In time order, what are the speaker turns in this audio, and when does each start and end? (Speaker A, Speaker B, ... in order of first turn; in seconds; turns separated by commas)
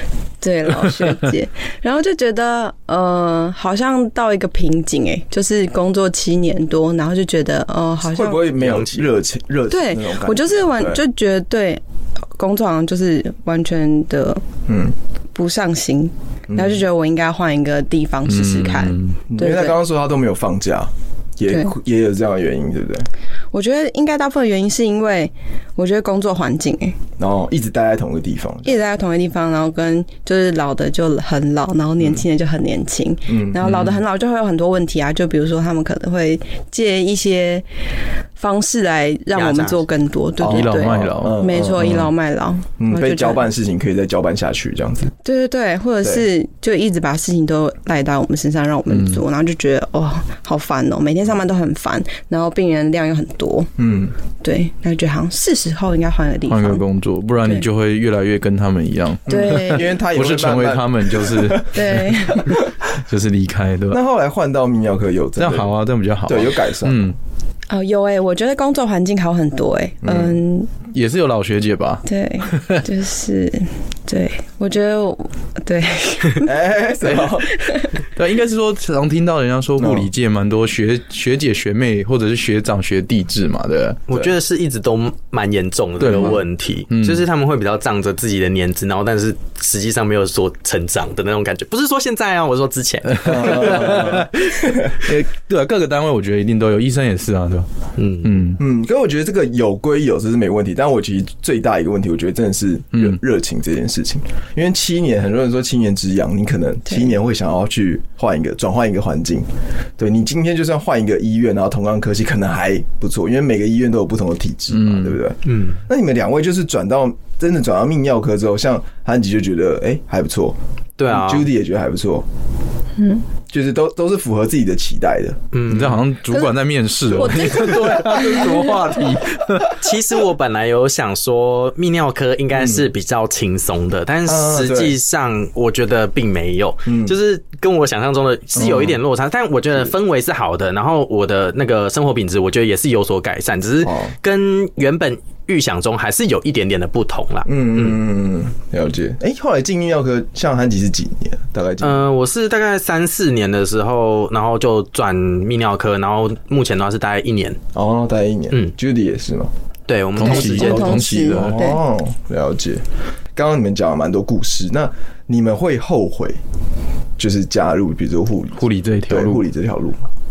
Speaker A: 0.4-8.5, Speaker B: 8.1-11.0, Speaker C: 8.6-9.1, Speaker A: 9.7-11.8, Speaker A: 12.3-14.4, Speaker B: 14.7-14.9, Speaker A: 15.3-19.8, Speaker B: 16.5-16.8, Speaker D: 18.3-19.2, Speaker B: 19.3-23.1, Speaker A: 23.5-27.0, Speaker B: 27.2-28.8, Speaker A: 28.6-37.6, Speaker B: 33.3-33.6, Speaker D: 33.6-34.0, Speaker A: 38.4-43.5, Speaker C: 39.3-39.9, Speaker B: 40.4-42.1, Speaker D: 40.4-42.0, Speaker B: 42.8-45.1, Speaker A: 45.2-53.7, Speaker D: 48.9-49.2, Speaker B: 53.8-54.1, Speaker A: 54.4-56.8, Speaker D: 56.5-62.0, Speaker A: 59.3-59.9, Speaker B: 59.3-62.7, Speaker A: 61.7-62.5, Speaker D: 63.0-64.0, Speaker B: 63.9-65.7, Speaker D: 65.4-67.2, Speaker B: 66.3-67.1, Speaker A: 67.7-70.7, Speaker B: 70.0-70.4, Speaker D: 70.9-72.8, Speaker A: 72.0-76.5, Speaker B: 76.4-77.5, Speaker A: 77.5-77.9, Speaker D: 78.2-84.0, Speaker B: 79.8-80.1, Speaker C: 84.1-94.3, Speaker D: 86.0-87.2, Speaker D: 93.1-94.3, Speaker B: 93.2-94.9, Speaker D: 94.9-97.7, Speaker C: 98.0-98.3, Speaker D: 98.2-98.6, Speaker B: 98.6-109.5, Speaker B: 110.0-120.6, Speaker D: 114.7-115.2, Speaker C: 115.5-115.8, Speaker C: 121.0-121.5, Speaker B: 121.1-122.3, Speaker B: 123.5-125.4, Speaker C: 125.5-126.0, Speaker D: 125.7-129.8, Speaker A: 127.1-129.0, Speaker C: 129.8-147.9, Speaker B: 132.5-132.9, Speaker B: 134.3-134.9, Speaker B: 136.9-137.2, Speaker B: 138.6-138.9, Speaker B: 143.8-144.1, Speaker B: 147.5-152.1, Speaker C: 151.8-157.6, Speaker B: 157.7-159.5, Speaker C: 159.9-161.1, Speaker D: 160.2-161.6, Speaker A: 160.2-161.8, Speaker B: 161.2-162.8, Speaker B: 163.3-166.4, Speaker B: 167.2-170.1, Speaker D: 168.6-169.4